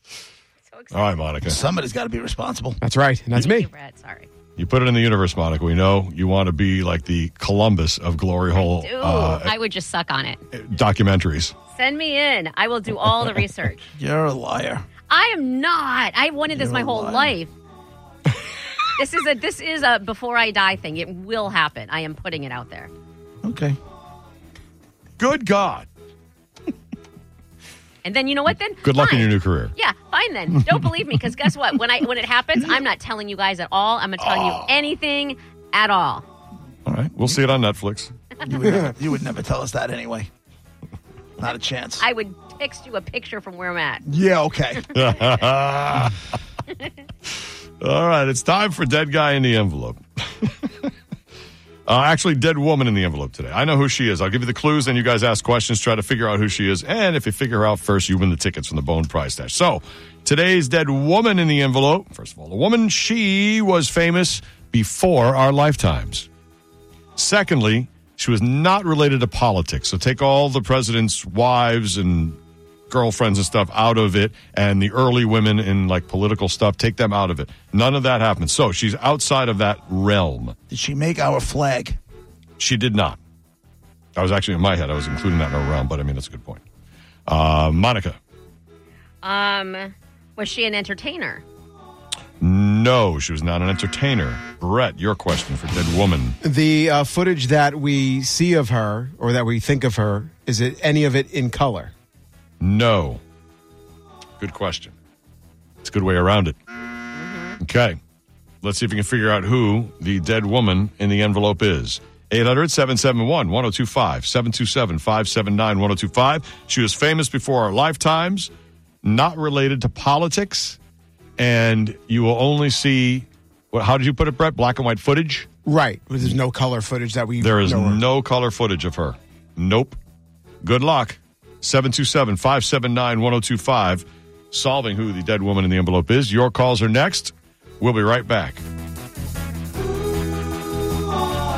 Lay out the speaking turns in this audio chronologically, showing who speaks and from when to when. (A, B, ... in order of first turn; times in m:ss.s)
0:00.6-0:01.3 A
0:00.9-0:01.6 B
0:01.4-0:02.8 C
0:02.8-0:03.6 D
0:03.3-0:04.3 A
0:04.6-0:09.5 B
0:08.5-0:10.4 A
0:10.5-0:11.5 B
0:11.7-0:13.8 A
0:14.0-0:14.8 C
0:15.1-0:17.5 A
0:16.5-0:17.4 C
0:19.0-0:22.9 A
0:23.4-0:23.8 C
0:25.2-0:25.9 B
0:28.0-0:36.2 A
0:28.8-0:29.7 B
0:34.2-0:34.6 B
0:36.8-0:38.1 B
0:38.4-0:40.3 C
0:41.4-0:42.0 C
0:42.0-0:44.0 A
0:44.0-0:44.8 C
0:44.9-0:46.2 B
0:47.8-0:50.9 B
0:51.9-1:06.3 B
1:07.2-1:12.4 B
1:12.9-1:20.6 B
1:20.7-1:22.0 C
1:22.6-1:23.2 B
1:24.2-1:26.6 B
1:27.3-1:28.2 B
1:29.2-1:31.4 A
1:32.4-1:36.4 B
1:36.4-1:41.9 D
1:42.6-1:43.2 B
1:44.4-1:44.9 B
1:45.8-1:46.6 B
1:47.1-1:47.6 A
1:47.6-1:48.0 B
1:48.6-1:58.5 B
1:59.0-2:00.8 B
2:01.4-2:05.5 B
2:05.6-2:08.0 D
2:07.4-2:10.0 B
2:10.6-2:18.6 B